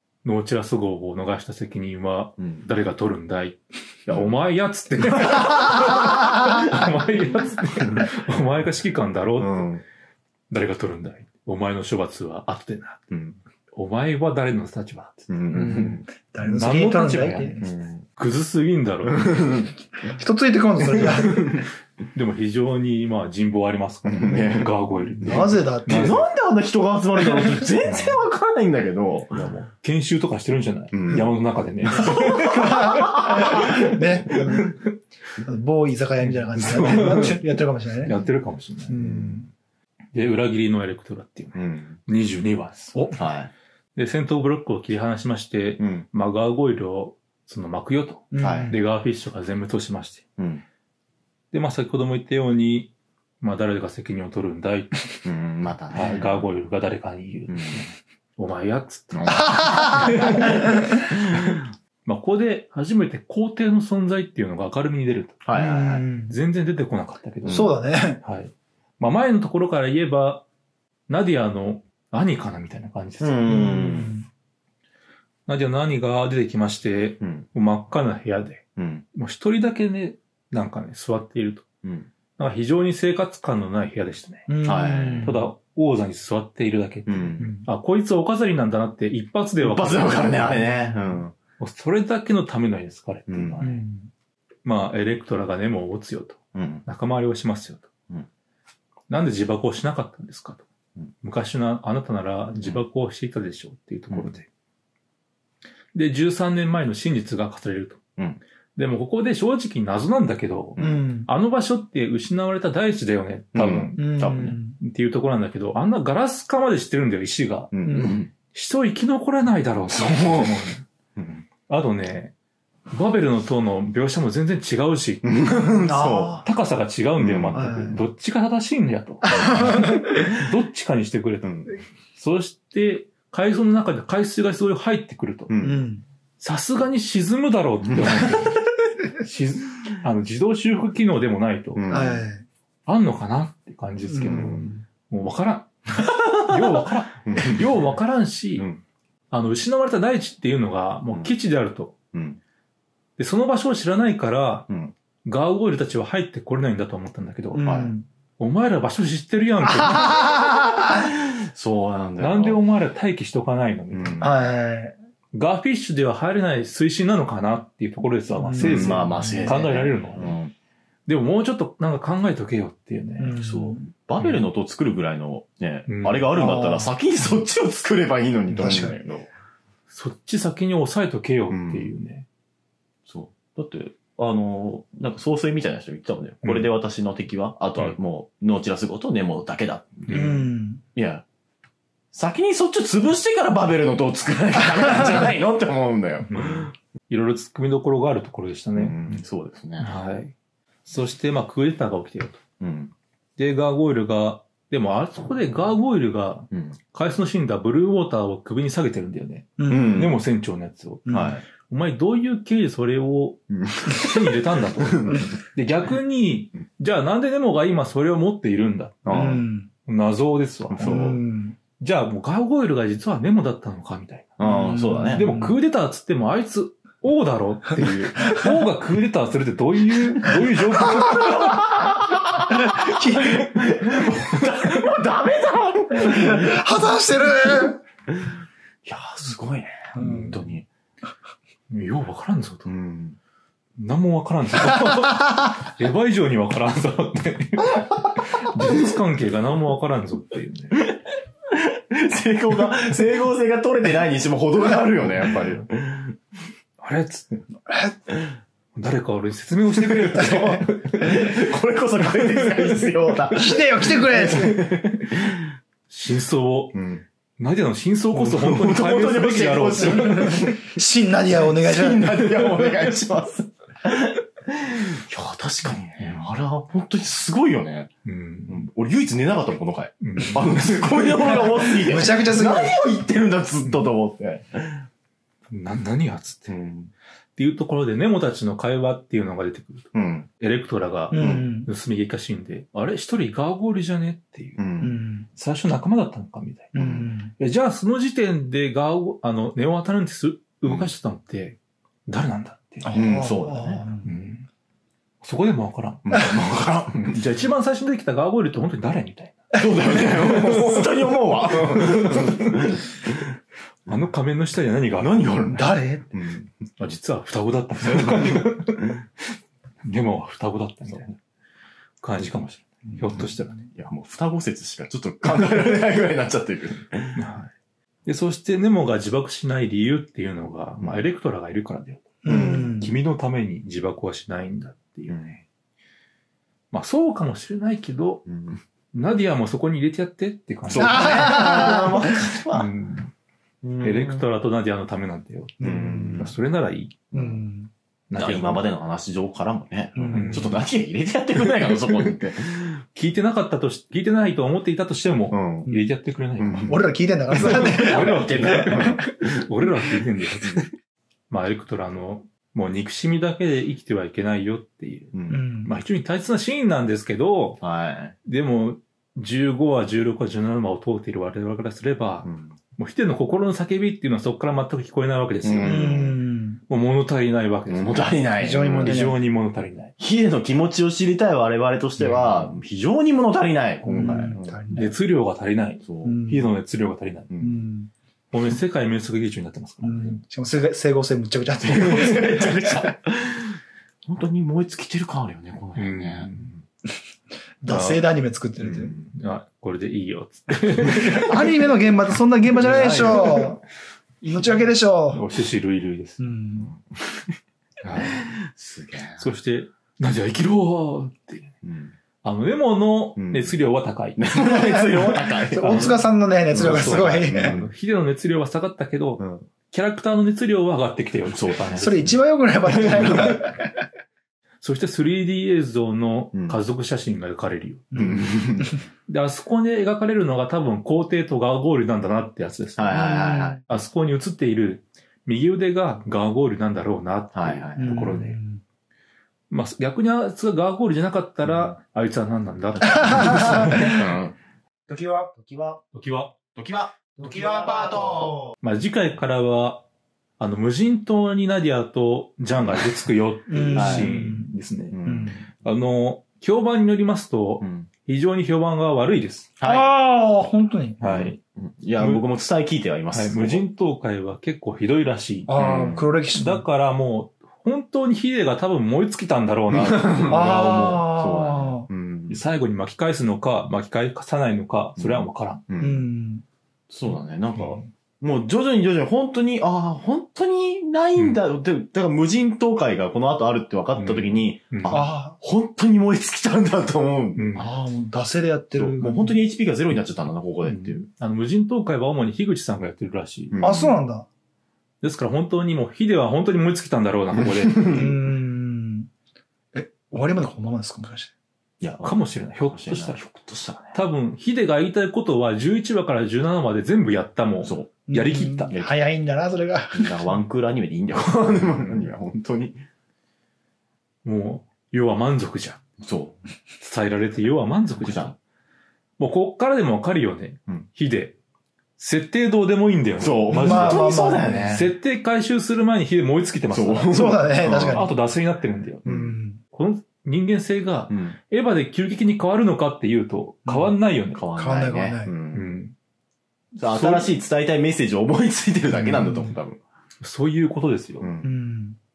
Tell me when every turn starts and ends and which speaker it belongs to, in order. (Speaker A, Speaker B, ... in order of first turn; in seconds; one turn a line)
Speaker A: 0.2-9.7
Speaker B: 4.1-4.3
Speaker B: 9.4-9.8
Speaker A: 10.5-13.1
Speaker B: 13.1-13.4
Speaker A: 13.7-19.5
Speaker B: 15.3-16.0
Speaker C: 16.2-17.6
Speaker B: 17.6-18.0
Speaker B: 19.1-19.7
Speaker C: 20.1-21.6
Speaker B: 20.8-21.7
Speaker A: 22.1-26.3
Speaker B: 24.1-29.5
Speaker C: 25.2-26.2
Speaker A: 27.8-28.2
Speaker A: 29.3-33.9
Speaker B: 30.9-31.3
Speaker B: 31.9-34.7
Speaker C: 32.1-34.8
Speaker C: 35.4-38.2
Speaker A: 36.2-37.4
Speaker B: 36.7-37.4
Speaker A: 38.0-39.0
Speaker C: 38.9-39.5
Speaker B: 39.0-39.5
Speaker A: 40.1-43.1
Speaker B: 41.5-42.0
Speaker B: 43.1-43.5
Speaker A: 44.0-50.2
Speaker B: 45.8-46.1
Speaker C: 48.3-48.8
Speaker B: 48.4-48.8
Speaker B: 50.4-50.6
Speaker A: 51.5-55.3
Speaker B: 55.2-56.5
Speaker A: 55.9-60.8
Speaker B: 57.5-57.9
Speaker B: 59.1-61.6
Speaker C: 59.3-61.1
Speaker A: 62.0-65.5
Speaker B: 65.5-66.0
Speaker C: 65.5-66.3
Speaker A: 66.3-70.5
Speaker B: 67.4-67.7
Speaker C: 67.5-68.2
Speaker A: 71.1-73.7
Speaker B: 73.2-74.2
Speaker C: 73.5-74.3
Speaker A: 75.5-81.7
Speaker B: 77.2-77.5
Speaker B: 78.8-79.0
Speaker B: 81.8-82.1
Speaker A: 82.4-84.6
Speaker C: 84.5-85.4
Speaker B: 84.6-85.4
Speaker A: 85.2-90.5
Speaker B: 87.1-87.5
Speaker C: 87.4-87.7
Speaker B: 89.6-91.3
Speaker A: 91.6-93.9
Speaker B: 93.3-93.6
Speaker C: 93.6-94.1
Speaker A: 94.7-97.9
Speaker B: 96.5-96.8
Speaker A: 99.1-100.7
Speaker A: 101.2-104.5
Speaker A: 105.9-108.0
Speaker A: 108.8-117.8
Speaker C: 110.8-111.3
Speaker B: 113.5-114.6
Speaker C: 114.0-114.8
Speaker B: 117.7-118.3
Speaker C: 117.8-118.2
Speaker A: 118.5-120.8
Speaker B: 119.9-121.5
Speaker A: 121.7-122.3
Speaker A: 122.9-125.5
Speaker B: 125.2-126.4
Speaker C: 125.8-126.5
Speaker A: 126.4-135.5
Speaker B: 127.2-128.0
Speaker C: 127.5-128.0
Speaker C: 129.3-130.2
Speaker B: 129.3-129.7
Speaker B: 131.4-131.7
Speaker B: 135.5-135.8
Speaker C: 135.6-136.0
Speaker A: 136.4-138.6
Speaker B: 137.9-138.4
Speaker A: 139.2-142.1
Speaker B: 141.8-142.2
Speaker C: 141.9-142.4
Speaker A: 142.9-148.7
Speaker C: 144.1-144.6
Speaker B: 144.2-144.8
Speaker B: 146.3-147.8
Speaker B: 148.6-148.8
Speaker A: 149.3-152.0
Speaker B: 152.1-152.4
Speaker A: 153.2-154.7
Speaker B: 154.7-154.9
Speaker A: 155.2-157.8
Speaker C: 157.5-158.1
Speaker B: 157.7-157.9
Speaker A: 158.4-160.3
Speaker B: 159.9-161.0
Speaker B: 161.5-162.6
Speaker A: 162.2-164.3
Speaker B: 163.9-164.3
Speaker C: 164.2-164.9
Speaker A: 165.3-170.4
Speaker C: 168.4-169.6
Speaker B: 168.6-170.5
Speaker A: 171.1-173.4
Speaker C: 173.2-173.8
Speaker B: 173.4-179.3
Speaker A: 175.9-176.5
Speaker C: 176.4-176.9
Speaker A: 178.5-178.9
Speaker C: 178.6-179.0
Speaker A: 179.9-182.3
Speaker B: 181.5-181.9
Speaker B: 183.1-190.3
Speaker A: 186.4-186.7
Speaker A: 190.1-190.5
Speaker C: 190.1-190.8
Speaker B: 190.9-191.2
Speaker B: 192.1-196.7
Speaker A: 196.3-199.2
Speaker B: 198.8-199.9
Speaker A: 199.8-200.3
Speaker A: 200.9-202.4
Speaker B: 202.6-202.9
Speaker A: 203.4-221.2
Speaker B: 206.5-206.8
Speaker C: 209.6-210.0
Speaker B: 209.7-210.2
Speaker C: 211.1-211.4
Speaker B: 211.1-211.4
Speaker B: 213.5-215.3
Speaker B: 219.1-219.5
Speaker C: 219.1-219.7
Speaker B: 220.7-221.2
Speaker C: 220.8-221.6
Speaker A: 221.8-231.7
Speaker B: 224.4-225.4
Speaker C: 224.4-225.5
Speaker B: 227.8-228.1
Speaker B: 231.0-236.6
Speaker C: 232.7-233.2
Speaker C: 236.0-237.8
Speaker B: 238.8-240.7
Speaker A: 240.0-240.4
Speaker C: 240.0-240.3
Speaker A: 241.7-242.7
Speaker B: 242.7-243.2
Speaker A: 243.8-250.8
Speaker B: 248.6-248.9
Speaker B: 250.8-256.2
Speaker A: 256.8-257.3
Speaker C: 257.7-258.0
Speaker A: 258.8-261.3
Speaker B: 259.9-265.5
Speaker C: 260.1-260.6
Speaker A: 262.4-262.7
Speaker C: 263.3-264.8
Speaker A: 265.9-266.8
Speaker B: 266.7-267.1
Speaker A: 267.4-270.6
Speaker B: 268.1-270.7
Speaker C: 270.7-272.1
Speaker B: 271.4-277.9
Speaker A: 276.0-276.3
Speaker A: 278.1-278.7
Speaker B: 278.5-284.9
Speaker A: 280.0-280.6
Speaker C: 281.4-282.8
Speaker A: 285.5-286.5
Speaker B: 286.5-286.9
Speaker A: 287.4-294.6
Speaker B: 289.9-290.3
Speaker C: 291.1-291.7
Speaker B: 291.1-291.5
Speaker B: 294.6-294.9
Speaker C: 294.8-295.3
Speaker A: 295.4-296.7
Speaker C: 296.7-297.3
Speaker B: 296.8-297.1
Speaker A: 297.4-302.9
Speaker C: 302.9-304.1
Speaker B: 302.9-303.9
Speaker A: 304.0-304.5
Speaker A: 305.2-306.3
Speaker B: 306.1-307.2
Speaker A: 306.9-312.7
Speaker B: 309.5-313.3
Speaker A: 313.9-315.6
Speaker B: 315.0-316.5
Speaker C: 315.6-316.1
Speaker A: 316.8-319.0
Speaker B: 317.8-318.5
Speaker A: 319.9-321.2
Speaker A: 322.0-323.7
Speaker B: 322.9-327.2
Speaker A: 327.2-327.5
Speaker A: 328.1-335.4
Speaker C: 332.2-332.9
Speaker B: 332.3-332.8
Speaker A: 336.7-338.2
Speaker B: 338.3-338.6
Speaker A: 338.9-341.8
Speaker B: 340.7-342.7
Speaker C: 340.8-341.9
Speaker A: 342.5-343.1
Speaker B: 343.6-344.2
Speaker A: 343.8-347.1
Speaker B: 345.6-346.3
Speaker C: 345.6-346.2
Speaker C: 347.1-347.7
Speaker A: 348.1-348.7
Speaker B: 348.2-352.8
Speaker C: 350.0-350.4
Speaker A: 350.1-350.6
Speaker A: 352.9-356.8
Speaker B: 355.3-355.7
Speaker B: 356.4-359.4
Speaker C: 356.7-359.0
Speaker A: 357.3-360.7
Speaker A: 361.3-367.6
Speaker B: 365.1-365.4
Speaker C: 365.3-365.7
Speaker B: 367.6-368.1
Speaker A: 368.2-376.0
Speaker B: 372.2-372.5
Speaker B: 375.4-376.2
Speaker C: 375.6-376.6
Speaker A: 376.7-379.9
Speaker B: 377.7-379.1
Speaker C: 378.4-379.2
Speaker B: 380.0-384.9
Speaker A: 382.0-382.6
Speaker C: 383.9-384.9
Speaker A: 384.0-387.3
Speaker B: 385.9-386.2
Speaker C: 386.0-386.5
Speaker B: 387.3-387.6
Speaker C: 387.4-387.9
Speaker A: 388.3-390.2
Speaker C: 389.8-392.9
Speaker B: 391.6-396.6
Speaker A: 395.8-396.5
Speaker C: 397.6-398.9
Speaker A: 397.7-398.1
Speaker B: 398.6-399.1
Speaker A: 399.1-401.5
Speaker C: 401.0-403.6
Speaker B: 402.6-403.6
Speaker A: 402.7-403.1
Speaker C: 404.2-405.2
Speaker A: 405.1-406.3
Speaker C: 406.2-406.7
Speaker B: 406.7-407.2
Speaker A: 407.8-408.2
Speaker B: 408.0-409.3
Speaker A: 409.2-411.5
Speaker B: 411.6-411.9
Speaker A: 412.2-414.3
Speaker B: 413.2-413.5
Speaker B: 414.2-416.0
Speaker C: 414.4-417.6
Speaker A: 415.6-422.2
Speaker B: 416.5-417.7
Speaker B: 419.2-419.4
Speaker B: 421.3-421.9
Speaker C: 421.8-423.7
Speaker B: 422.7-423.4
Speaker A: 424.6-433.2
Speaker B: 426.3-426.6
Speaker C: 427.9-428.8
Speaker B: 428.0-428.8
Speaker B: 432.8-433.6
Speaker C: 432.9-433.6
Speaker A: 433.7-438.4
Speaker B: 437.3-438.1
Speaker C: 437.8-438.6
Speaker A: 439.5-444.0
Speaker B: 443.0-444.4
Speaker C: 443.1-444.0
Speaker C: 444.9-445.8
Speaker A: 445.9-446.3
Speaker B: 446.6-448.4
Speaker C: 447.2-448.3
Speaker A: 448.6-449.9
Speaker A: 450.4-455.0
Speaker C: 453.5-454.5
Speaker B: 453.8-454.1
Speaker B: 454.9-455.4
Speaker C: 455.0-455.4
Speaker A: 455.6-459.5
Speaker B: 457.6-457.9
Speaker B: 459.6-459.9
Speaker C: 459.6-461.0
Speaker A: 461.0-461.4
Speaker B: 461.0-463.6
Speaker A: 462.0-462.3
Speaker A: 463.1-465.6
Speaker C: 465.5-466.6
Speaker B: 465.6-466.1
Speaker A: 466.3-471.1
Speaker B: 469.7-472.4
Speaker C: 470.3-471.9
Speaker A: 472.3-475.6
Speaker B: 475.0-476.1
Speaker C: 475.8-476.4
Speaker B: 476.9-487.5
Speaker A: 477.6-477.9
Speaker A: 481.2-481.4
Speaker A: 483.9-485.1
Speaker C: 484.9-485.4
Speaker A: 487.4-487.7
Speaker C: 487.6-489.4
Speaker B: 488.8-491.1
Speaker A: 490.6-493.6
Speaker B: 493.5-494.0
Speaker C: 493.6-494.3
Speaker A: 495.0-498.1
Speaker B: 497.3-498.1
Speaker C: 497.9-499.1
Speaker C: 499.7-501.3
Speaker B: 501.8-504.0
Speaker A: 502.0-503.2
Speaker A: 503.9-508.8
Speaker B: 507.6-507.9
Speaker C: 508.1-510.4
Speaker B: 509.9-512.8
Speaker A: 514.2-515.8
Speaker B: 516.0-516.4
Speaker A: 516.8-518.4
Speaker B: 518.0-518.4
Speaker A: 519.2-521.4
Speaker A: 522.0-529.1
Speaker B: 523.2-524.9
Speaker C: 523.5-524.9
Speaker B: 526.7-528.1
Speaker C: 527.1-528.1
Speaker B: 529.0-529.4
Speaker C: 529.0-529.6
Speaker A: 529.7-534.4
Speaker B: 531.1-531.4
Speaker C: 533.7-533.9
Speaker B: 534.3-535.7
Speaker C: 534.5-535.3
Speaker A: 535.5-536.0
Speaker A: 536.8-537.3
Speaker B: 536.8-539.8
Speaker A: 539.0-539.4
Speaker C: 539.2-539.4
Speaker A: 540.2-541.3
Speaker B: 541.2-541.5
Speaker C: 541.4-542.0